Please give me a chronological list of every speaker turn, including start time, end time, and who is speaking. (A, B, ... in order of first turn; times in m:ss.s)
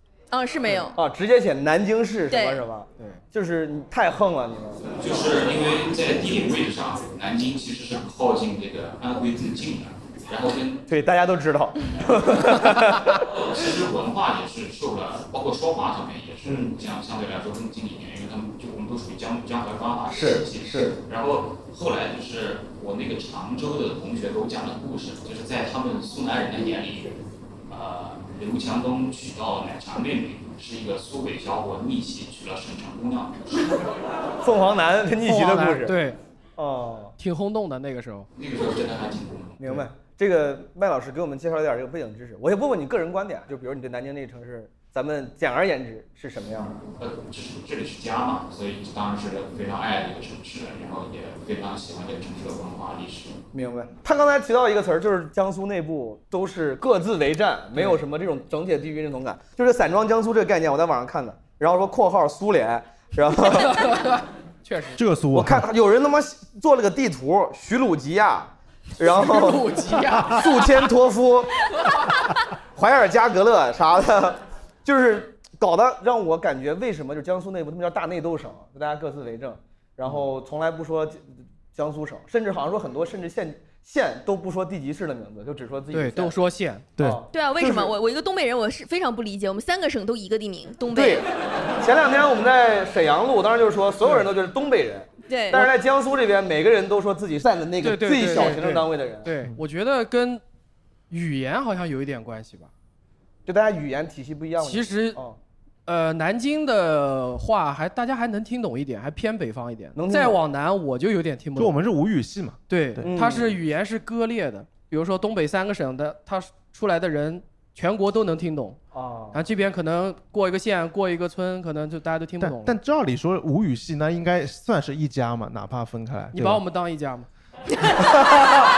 0:00.3-0:00.9 A
0:01.0-0:04.8 B
0:02.3-0:02.6 A
0:05.0-0:10.8 C
0:10.9-0:13.0 B
0:13.3-0:27.1 C
0:20.1-0:20.9 B
0:27.7-0:33.6 C
0:34.4-0:36.0 B
0:35.2-0:36.2 D
0:36.6-0:37.1 B
0:37.2-0:38.3 D
0:38.4-0:39.6 C
0:39.6-0:46.8 B
0:47.0-0:53.4 C
0:53.5-1:03.8 B
1:03.6-1:05.0 D
1:05.0-1:05.6 E
1:05.3-1:09.7 B
1:09.0-1:10.6 D
1:10.3-1:11.5 B
1:12.8-1:26.4 B
1:25.9-1:26.9 D
1:27.0-1:27.9 B
1:27.3-1:31.2 A
1:30.9-1:31.3 B
1:31.8-1:39.3 B
1:35.3-1:35.7 A
1:37.8-1:40.4 D
1:41.1-1:42.7 D
1:43.5-1:45.4 B
1:44.6-1:45.2 D
1:45.9-1:51.8 D
1:50.0-1:50.4 B
1:51.6-1:53.1 E
1:52.7-1:58.8 D
1:53.0-1:53.6 B
1:58.9-1:59.4 B
1:59.3-2:02.8 D
2:02.4-2:06.6 E
2:06.3-2:07.3 D